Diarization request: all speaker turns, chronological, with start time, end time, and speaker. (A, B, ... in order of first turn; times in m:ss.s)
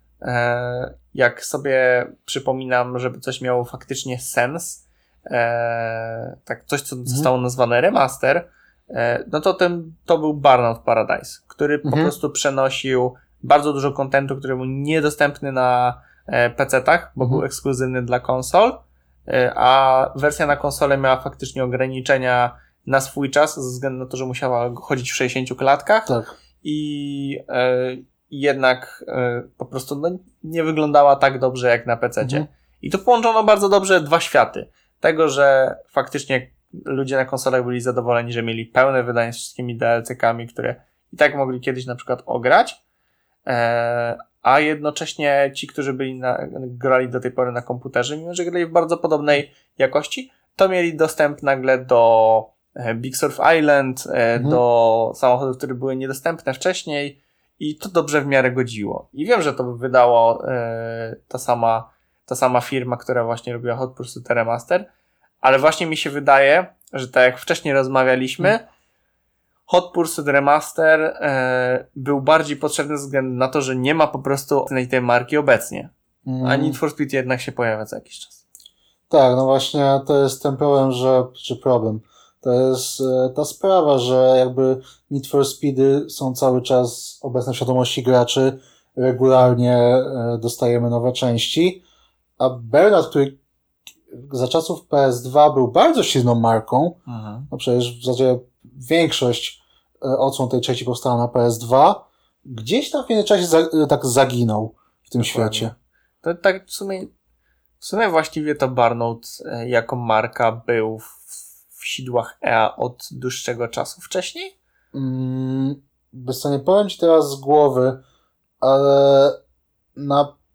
0:00.2-0:42.8 A
0:11.8-0:12.1 B
0:26.1-0:26.3 B
0:43.5-1:04.9 A
1:05.4-1:08.7 A
1:09.7-1:18.4 A
1:16.2-1:16.8 B
1:19.1-1:31.8 B
1:32.4-1:33.4 B
1:34.1-1:37.0 B
1:37.1-1:37.5 A
1:37.5-1:45.7 B
1:45.2-1:47.1 A
1:47.8-1:54.6 A
1:54.9-1:58.0 B
1:58.6-1:59.4 B
2:00.0-2:00.3 B